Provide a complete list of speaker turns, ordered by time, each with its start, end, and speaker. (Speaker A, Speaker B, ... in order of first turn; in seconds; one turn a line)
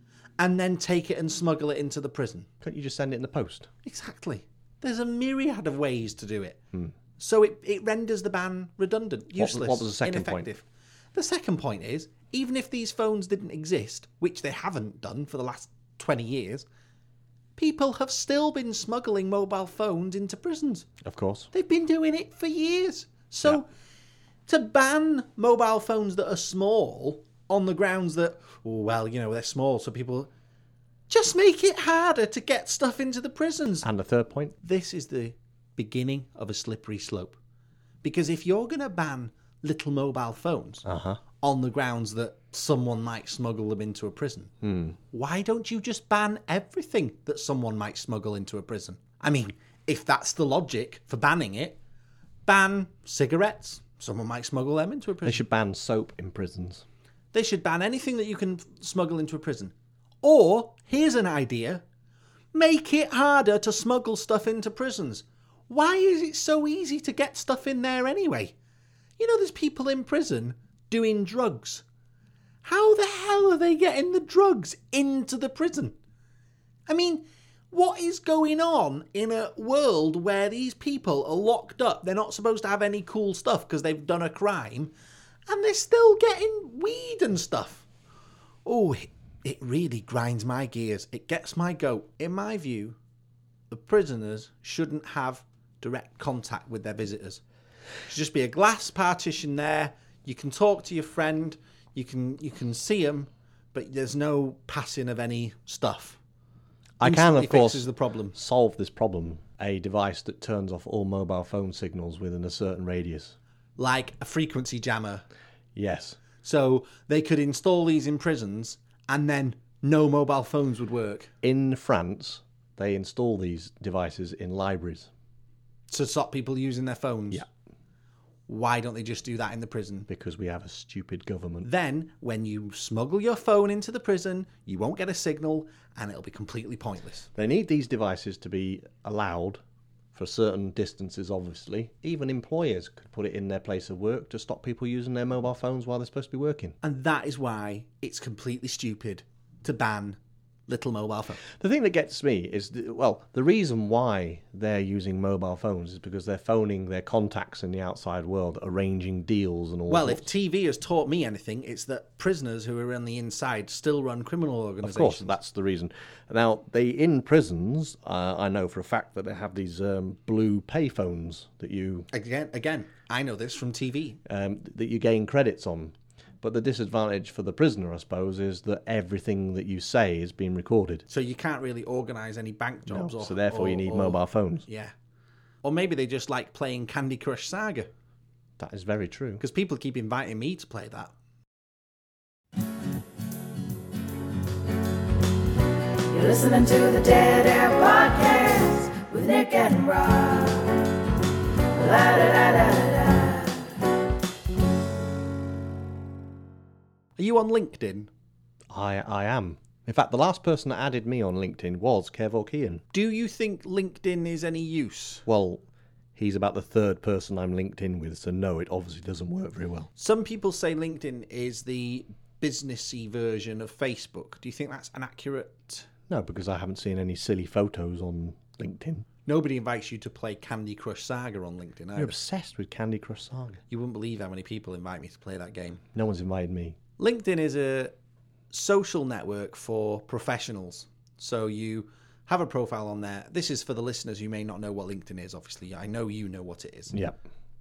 Speaker A: 0.4-2.5
Speaker B: 2.6-3.7
Speaker A: 3.8-6.6
Speaker A: 7.2-16.7
Speaker B: 9.3-10.5
Speaker A: 17.6-21.0
Speaker B: 21.0-21.5
Speaker A: 21.5-23.7
Speaker A: 24.5-30.3
Speaker A: 31.1-33.9
Speaker B: 33.8-34.6
Speaker A: 34.6-37.4
Speaker A: 38.0-40.9
Speaker B: 40.9-41.2
Speaker A: 41.4-44.5
Speaker B: 44.6-45.0
Speaker A: 45.1-51.8
Speaker A: 52.5-55.4
Speaker B: 55.2-56.8
Speaker A: 57.3-61.8
Speaker A: 62.5-68.5
Speaker A: 69.2-71.8
Speaker A: 72.6-76.0
Speaker A: 76.9-84.9
Speaker A: 85.5-87.8
Speaker A: 88.7-93.0
Speaker A: 93.7-97.4
Speaker A: 98.1-106.2
Speaker B: 107.0-113.4
Speaker A: 107.0-108.4
Speaker A: 113.8-115.2
Speaker B: 115.8-116.2
Speaker A: 116.4-121.3
Speaker B: 121.4-125.1
Speaker A: 125.9-127.5
Speaker A: 128.5-130.1
Speaker B: 130.1-131.7
Speaker A: 131.7-137.3
Speaker B: 137.3-139.6
Speaker B: 140.1-146.8
Speaker A: 146.8-151.4
Speaker B: 151.4-160.3
Speaker A: 159.9-165.4
Speaker B: 164.8-172.1
Speaker A: 172.1-174.2
Speaker B: 174.3-181.1
Speaker A: 181.1-184.9
Speaker B: 182.9-184.7
Speaker A: 185.6-187.9
Speaker B: 188.6-189.4
Speaker A: 189.4-191.1
Speaker C: 196.1-200.7
Speaker C: 201.7-203.5
Speaker A: 207.2-208.1
Speaker B: 208.7-212.8
Speaker A: 212.9-215.2
Speaker B: 215.3-215.6
Speaker B: 216.2-219.9
Speaker A: 220.0-225.9
Speaker B: 226.1-229.1
Speaker A: 229.3-232.2
Speaker B: 232.0-233.6
Speaker A: 233.7-235.8
Speaker B: 235.9-236.8
Speaker A: 237.0-237.9
Speaker A: 238.5-246.9
Speaker B: 246.9-247.2